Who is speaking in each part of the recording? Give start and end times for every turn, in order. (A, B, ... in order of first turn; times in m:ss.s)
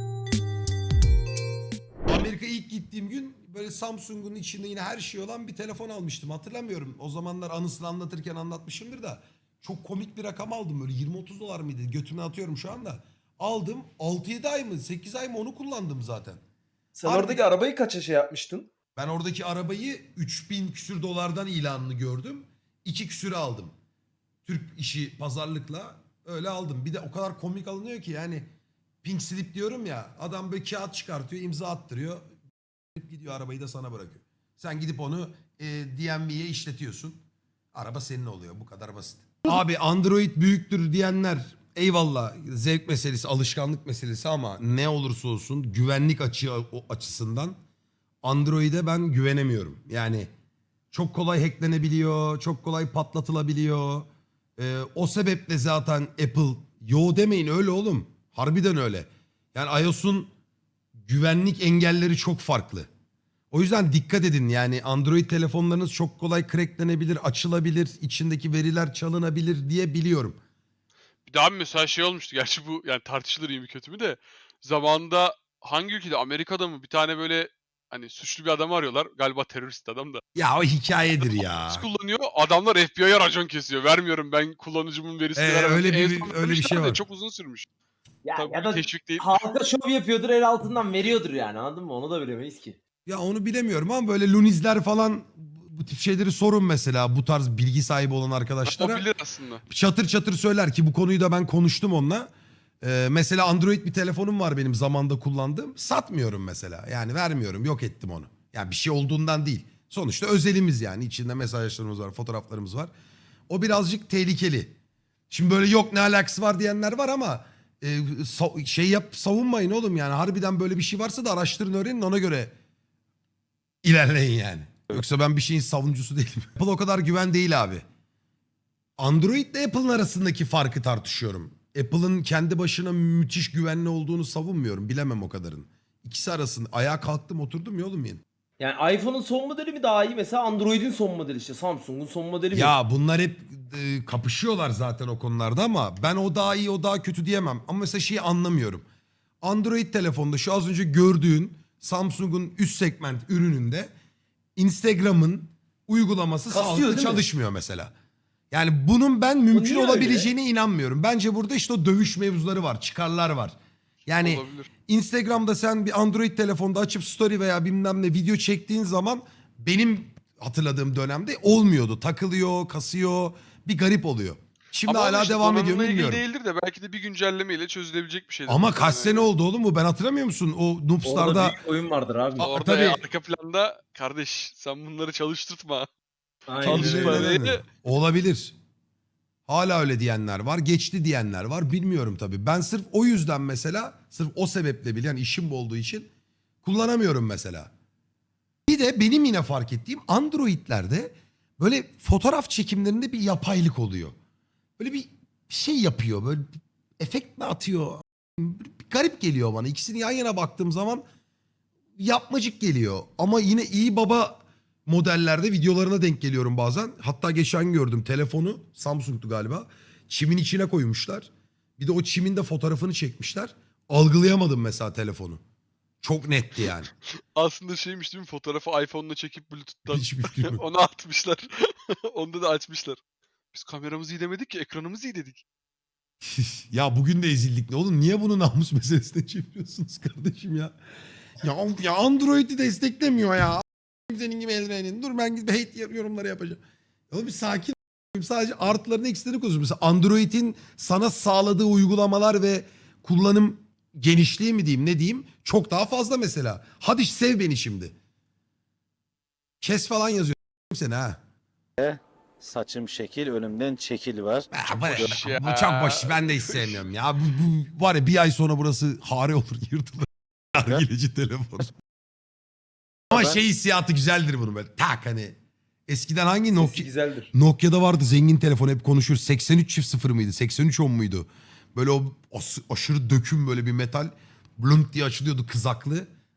0:02.1-0:16.4 A
0:16.9-0:18.7 B
0:17.0-0:17.4 A
0:19.0-0:23.7 A
0:24.4-0:28.5 A
0:29.0-0:32.2 A
0:32.9-0:37.2 A
0:37.7-0:47.6 A
0:48.2-0:50.3 A
0:50.9-1:00.3 A
1:01.0-1:02.9 A
1:03.5-1:10.4 A
1:11.3-1:20.2 C
1:20.3-1:21.8 A
1:21.2-1:27.7 C
1:25.4-1:27.0 A
1:28.2-1:32.8 B
1:28.4-1:29.4 C
1:33.0-1:39.0 A
1:38.6-1:39.6 C
1:39.7-1:42.3 A
1:42.8-1:52.9 A
1:53.5-1:54.7 A
1:55.3-2:02.5 A
2:03.8-2:07.8 A
2:09.0-2:18.2 A
2:18.6-2:22.7 B
2:22.5-2:28.8 A
2:29.4-2:33.9 A
2:34.6-2:37.9 A
2:36.5-2:37.2 B
2:38.5-2:43.6 A
2:39.5-2:40.3 B
2:44.1-2:56.2 A
2:44.1-2:44.7 C
2:54.8-2:59.3 C
2:58.5-3:01.5 A
3:01.0-3:02.5 B
3:02.4-3:03.0 A
3:02.4-3:05.9 C
3:06.5-3:07.4 B
3:06.6-3:07.6 C
3:06.6-3:08.5 A
3:09.5-3:16.1 A
3:16.6-3:17.7 A
3:18.7-3:24.1 A
3:24.8-3:26.5 A
3:27.0-3:31.0 A
3:32.0-3:45.4 A
3:46.0-3:46.9 A
3:47.3-3:53.0 C
3:49.9-3:50.6 A
3:53.5-3:55.4 C
3:56.2-4:00.7 A
4:01.4-4:06.6 A
4:07.1-4:17.9 A
4:19.6-4:21.2 A
4:21.8-4:25.2 D
4:24.5-4:31.7 A
4:24.7-4:26.9 C
4:33.1-4:35.3 A
4:33.1-4:33.4 D
4:35.9-4:46.1 A
4:36.5-4:37.3 B